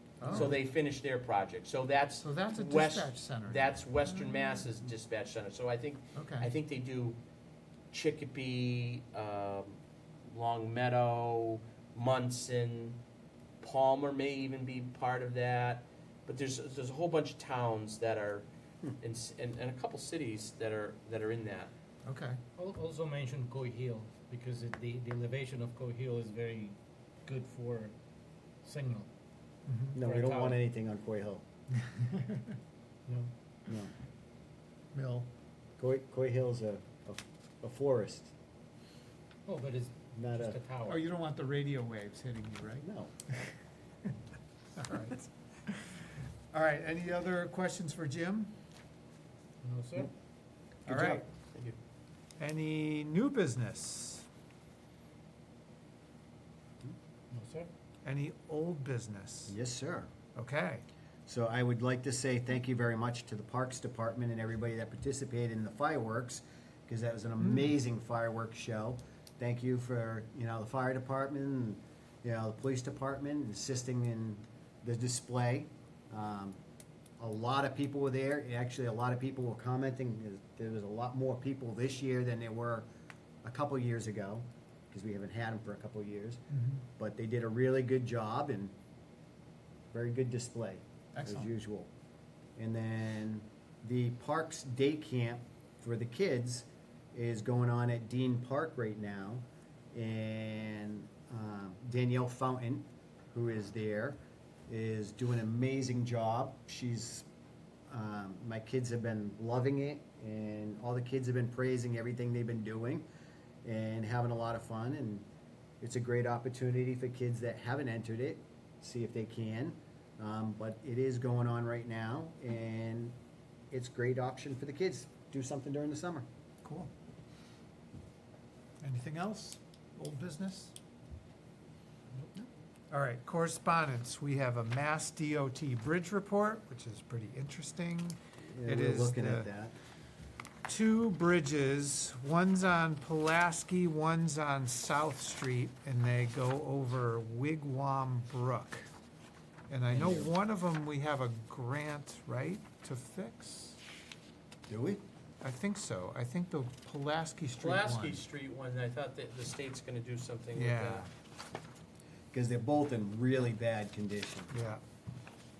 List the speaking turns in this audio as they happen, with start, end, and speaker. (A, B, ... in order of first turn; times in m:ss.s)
0:00.2-0:00.6 A
0:00.2-0:07.2 B
0:00.2-0:00.5 C
0:02.2-0:04.7 A
0:06.2-0:06.5 A
0:07.9-0:13.0 B
0:13.6-0:18.5 B
0:19.0-0:21.7 B
0:22.0-0:22.4 A
0:22.6-0:27.9 D
0:28.6-0:29.1 D
0:29.7-0:30.0 A
0:30.0-0:31.4 C
0:30.0-0:30.6 D
0:31.7-0:32.6 A
0:33.7-0:33.9 C
0:34.9-0:35.3 A
0:35.8-0:38.3 C
0:39.5-0:41.0 D
0:40.1-0:40.6 C
0:40.8-0:43.6 A
0:42.8-0:43.1 C
0:44.8-0:48.5 A
0:49.6-0:50.1 D
0:50.9-0:51.2 C
0:50.9-0:51.2 A
0:51.5-0:51.8 B
0:52.4-0:54.3 A
0:57.3-0:57.7 D
0:58.0-0:59.6 A
0:59.5-1:00.1 C
1:00.4-1:00.8 A
1:01.3-1:16.6 C
1:07.4-1:07.7 A
1:17.2-1:22.9 C
1:23.4-1:26.4 C
1:26.5-1:26.8 A
1:27.0-1:28.7 C
1:29.9-1:31.9 C
1:31.2-1:31.5 A
1:32.6-1:47.3 C
1:47.9-1:53.1 C
1:53.6-1:55.3 C
1:55.8-2:03.2 C
2:03.7-2:06.2 C
2:06.6-2:06.9 A
2:08.8-2:10.8 A
2:12.9-2:19.5 A
2:18.5-2:19.8 C
2:20.7-2:28.9 A
2:29.7-2:33.8 A
2:29.9-2:30.3 C
2:34.7-2:35.0 C
2:35.4-2:38.2 A
2:37.6-2:41.1 B
2:40.6-2:41.1 A
2:42.3-2:44.5 C
2:44.5-2:44.8 A